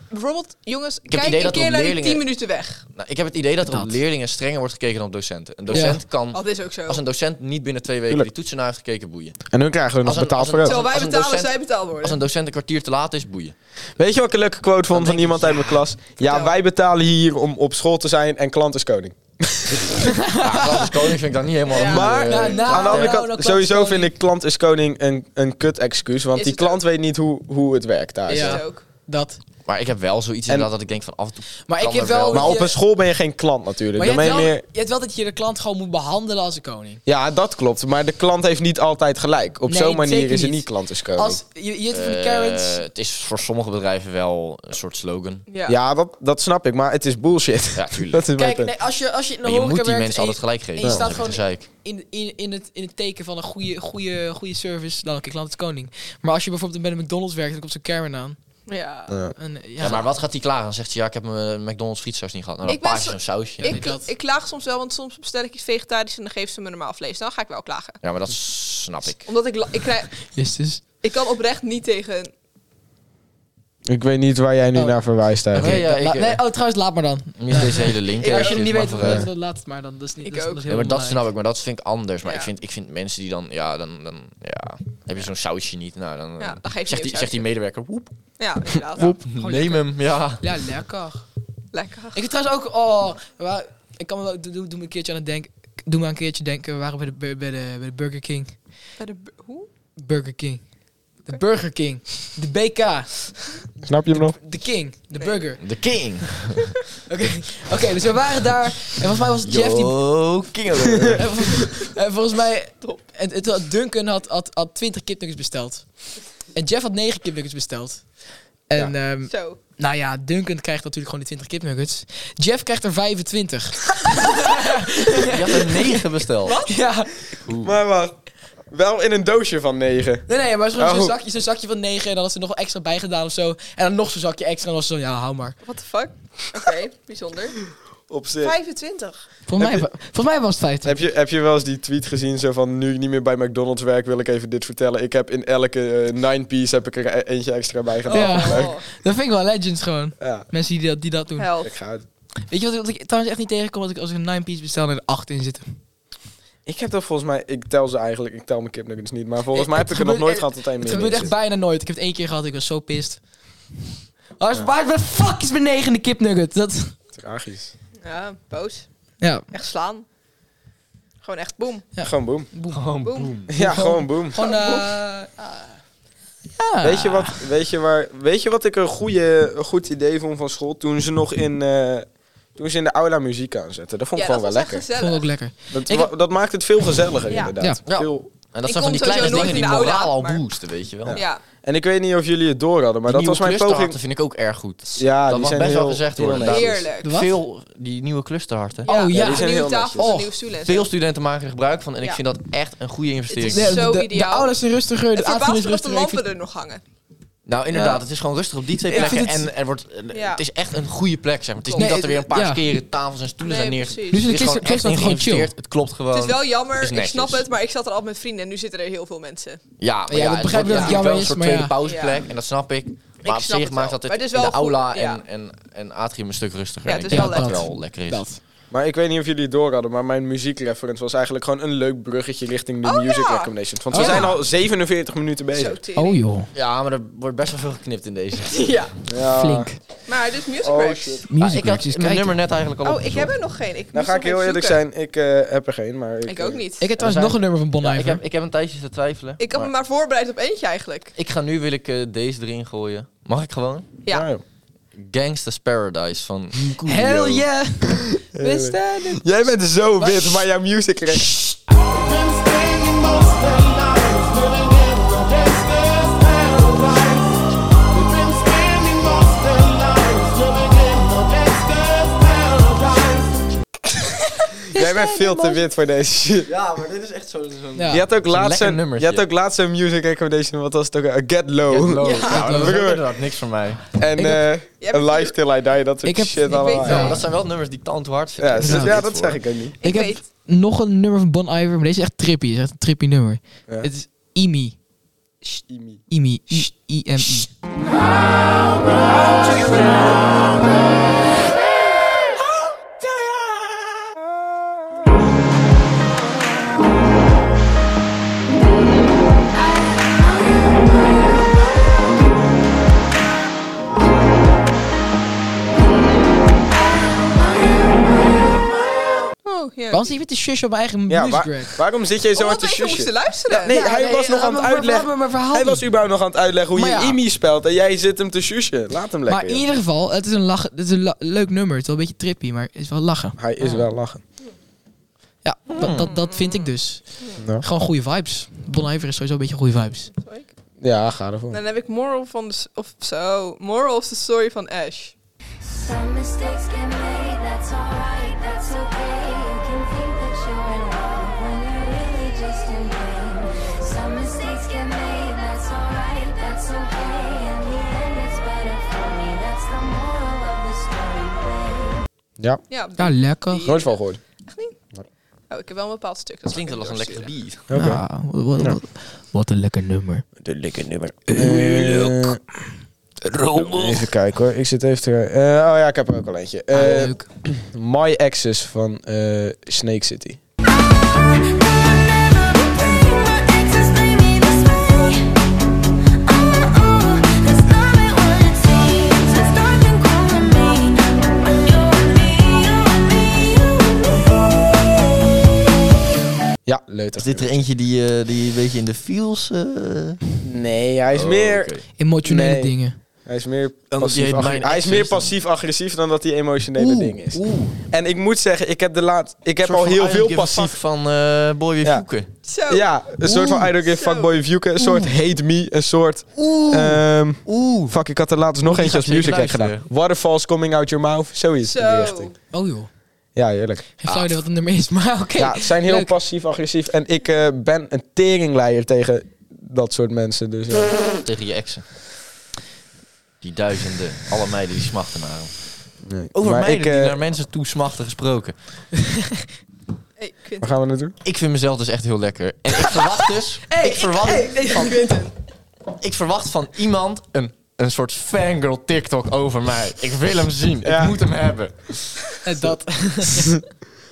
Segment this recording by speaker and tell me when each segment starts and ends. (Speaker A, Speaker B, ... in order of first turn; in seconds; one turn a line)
Speaker A: 0.1-2.9
Speaker B: 1.1-2.2
Speaker B: 2.9-9.4
Speaker C: 3.7-4.0
Speaker C: 5.7-6.0
Speaker A: 5.7-7.0
Speaker D: 9.5-10.8
Speaker B: 10.0-13.5
Speaker A: 10.6-12.2
Speaker D: 14.0-20.0
Speaker B: 14.9-15.8
Speaker C: 20.0-20.9
Speaker B: 20.4-23.1
Speaker A: 21.7-22.4
Speaker D: 21.8-28.6
Speaker C: 22.2-24.1
Speaker A: 26.3-26.8
Speaker A: 28.3-28.8
Speaker C: 28.3-29.4
Speaker B: 29.6-32.6
Speaker C: 31.7-32.8
Speaker D: 32.3-34.6
Speaker C: 33.9-37.0
Speaker D: 37.0-41.4
Speaker C: 39.6-42.8
Speaker B: 41.9-45.4
Speaker A: 45.5-45.8
Speaker D: 45.7-48.7
Speaker B: 47.7-48.2
Speaker C: 48.4-58.4
Speaker B: 49.4-51.7
Speaker A: 58.7-59.1
Speaker C: 59.4-60.0
Speaker B: 59.8-63.8
Speaker A: 62.6-68.0
Speaker C: 63.6-64.1
Speaker B: 68.0-69.2
Speaker A: 69.2-70.3
Speaker C: 70.3-70.8
Speaker A: 71.0-72.3
Speaker D: 73.9-75.8
Speaker C: 75.5-81.2
Speaker B: 75.5-76.4
Speaker B: 77.4-79.2
Speaker A: 78.2-78.6
Speaker D: 79.0-79.3
Speaker A: 80.2-80.6
Speaker B: 80.7-88.1
Speaker A: 82.2-82.5
Speaker A: 86.4-87.4
Speaker A: 88.4-89.2
Speaker B: 88.9-90.4
Speaker C: 89.3-91.2
Speaker A: 91.7-92.2
Speaker C: 92.1-98.5
Speaker A: 99.0-99.7
Speaker C: 100.0-100.6
Speaker C: 101.2-103.5
Speaker D: 103.8-104.4
Speaker C: 104.1-105.6
Speaker B: 105.6-106.8
Speaker C: 107.1-110.0
Speaker B: 109.4-111.3
Speaker C: 111.0-116.0
Speaker C: 116.5-118.1
Speaker C: 118.7-126.0
Speaker A: 119.3-119.6
Speaker B: 125.2-126.6
Speaker A: 126.4-126.7
Speaker C: 126.6-127.1
Speaker B: 127.4-127.7
Speaker D: 127.6-128.1
Speaker D: 128.7-131.1
Speaker C: 130.3-135.6
Speaker A: 135.6-137.6
Speaker D: 138.1-138.5
Speaker A: 138.4-139.3
Speaker C: 139.5-141.0
Speaker D: 139.6-139.9
Speaker D: 140.8-148.8
Speaker A: 148.1-148.8
Speaker C: 148.1-151.5
Speaker D: 150.2-150.4
Speaker A: 151.4-151.7
Speaker D: 151.6-152.1
Speaker C: 152.5-155.7
Speaker D: 156.7-161.3
Speaker C: 159.5-163.2
Speaker A: 160.8-161.3
Speaker C: 164.4-166.9
Speaker D: 167.1-167.7
Speaker A: 168.0-168.8
Speaker C: 169.2-169.5
Speaker A: 169.5-170.0
Speaker A: 171.2-171.9
Speaker C: 171.9-172.8
Speaker D: 172.0-172.5
Speaker B: 172.7-173.5
Speaker A: 173.0-173.4
Speaker D: 173.5-174.4
Speaker C: 173.5-175.3
Speaker A: 174.3-175.7
Speaker C: 176.6-177.4
Speaker D: 176.8-184.8
Speaker A: 184.1-185.3
Speaker C: 184.9-186.1
Speaker D: 185.7-188.3
Speaker B: 187.8-191.2
Speaker A: 188.6-190.4
Speaker D: 191.0-194.0
Speaker A: 191.1-191.4
Speaker B: 193.1-198.9
Speaker D: 195.0-196.8
Speaker A: 196.4-197.2
Speaker C: 197.0-197.3
Speaker A: 198.8-200.9
Speaker C: 198.8-200.3
Speaker D: 199.1-200.1
Speaker B: 200.6-203.8
Speaker A: 203.3-204.6
Speaker C: 203.5-206.2
Speaker A: 205.1-206.8
Speaker B: 207.4-217.4
Speaker C: 207.7-208.0
Speaker C: 208.8-209.5
Speaker A: 208.9-209.2
Speaker A: 210.1-210.4
Speaker A: 211.6-212.0
Speaker C: 211.8-212.6
Speaker A: 213.4-214.2
Speaker C: 214.1-215.5
Speaker A: 216.1-219.6
Speaker B: 219.8-228.2
Speaker C: 220.1-221.7
Speaker A: 220.5-221.0
Speaker A: 221.8-222.3
Speaker A: 223.2-225.2
Speaker A: 226.8-227.7
Speaker C: 227.1-228.4
Speaker D: 228.7-235.8
Speaker A: 232.8-234.4
Speaker C: 233.9-234.3
Speaker A: 235.5-236.2
Speaker C: 235.9-236.5
Speaker B: 236.5-238.8
Speaker A: 238.5-238.9
Speaker D: 239.1-239.7
Speaker C: 239.2-239.8
Speaker A: 240.1-241.2
Speaker D: 240.6-241.3
Speaker C: 241.3-242.4
Speaker B: 241.4-243.3
Speaker A: 242.8-244.8
Speaker D: 243.9-246.6
Speaker A: 246.2-246.9
Speaker C: 246.8-248.2
Speaker B: 247.0-249.7
Speaker A: 249.4-251.1
Speaker B: 251.2-253.9
Speaker D: 254.1-254.4
Speaker B: 254.9-257.4
Speaker C: 256.8-258.7
Speaker D: 258.3-261.4
Speaker A: 258.4-259.2
Speaker C: 260.0-260.4
Speaker C: 274.7-275.6
Speaker D: 274.7-276.5
Speaker B: 276.4-279.2
Speaker C: 277.8-278.0
Speaker D: 277.9-283.1
Speaker B: 281.7-283.8
Speaker A: 282.0-282.5
Speaker C: 282.3-282.8
Speaker D: 283.9-287.2
Speaker C: 284.1-284.5
Speaker A: 284.8-285.3
Speaker C: 286.0-287.2
Speaker A: 286.5-287.2
Speaker B: 286.8-289.4
Speaker D: 288.4-289.7
Speaker C: 288.5-289.0
Speaker A: 289.8-290.2
Speaker C: 289.8-294.8
Speaker D: 295.6-296.0
Speaker C: 296.1-297.5
Speaker A: 319.4-320.1
Speaker C: 319.9-321.8
Speaker D: 321.1-329.6
Speaker A: 322.3-323.8
Speaker C: 323.7-325.8
Speaker C: 326.7-327.2
Speaker C: 329.3-333.4
Speaker D: 333.4-334.2
Speaker C: 335.4-340.1
Speaker B: 335.8-336.1
Speaker A: 336.3-337.4
Speaker A: 340.2-340.5
Speaker D: 340.8-341.6
Speaker A: 341.5-345.1
Speaker E: 345.7-362.0
Speaker A: 362.7-364.7
Speaker C: 363.0-363.7
Speaker D: 363.6-364.2
Speaker A: 365.5-367.3
Speaker B: 366.5-367.7
Speaker D: 367.7-368.8
Speaker C: 367.7-370.2
Speaker D: 370.4-372.4
Speaker C: 371.3-372.3
Speaker C: 373.3-373.9
Speaker D: 373.5-380.4
Speaker C: 376.7-377.3
Speaker E: 381.0-385.3
Speaker E: 386.2-394.2
Speaker D: 396.6-397.5
Speaker B: 397.2-400.2
Speaker D: 400.4-410.8
Speaker B: 401.1-401.8
Speaker C: 402.0-403.0
Speaker B: 403.9-405.4
Speaker B: 406.8-407.8
Speaker B: 409.6-412.3
Speaker A: 412.4-414.3
Speaker D: 412.7-422.3
Speaker B: 414.8-415.1
Speaker B: 416.4-417.9
Speaker B: 418.6-419.8
Speaker A: 421.6-422.3
Speaker C: 422.5-422.9
Speaker D: 423.4-423.9
Speaker C: 424.0-426.1
Speaker B: 424.1-424.4
Speaker D: 425.4-431.0
Speaker B: 431.2-431.8
Speaker B: 433.4-438.5
Speaker D: 436.0-437.2
Speaker C: 438.9-439.4
Speaker A: 440.2-440.7
Speaker D: 440.6-441.1
Speaker B: 441.2-444.9
Speaker C: 442.8-443.2
Speaker C: 443.7-445.2
Speaker A: 444.7-445.3
Speaker B: 445.9-452.3
Speaker D: 450.8-451.2
Speaker C: 452.4-453.6
Speaker D: 452.6-453.5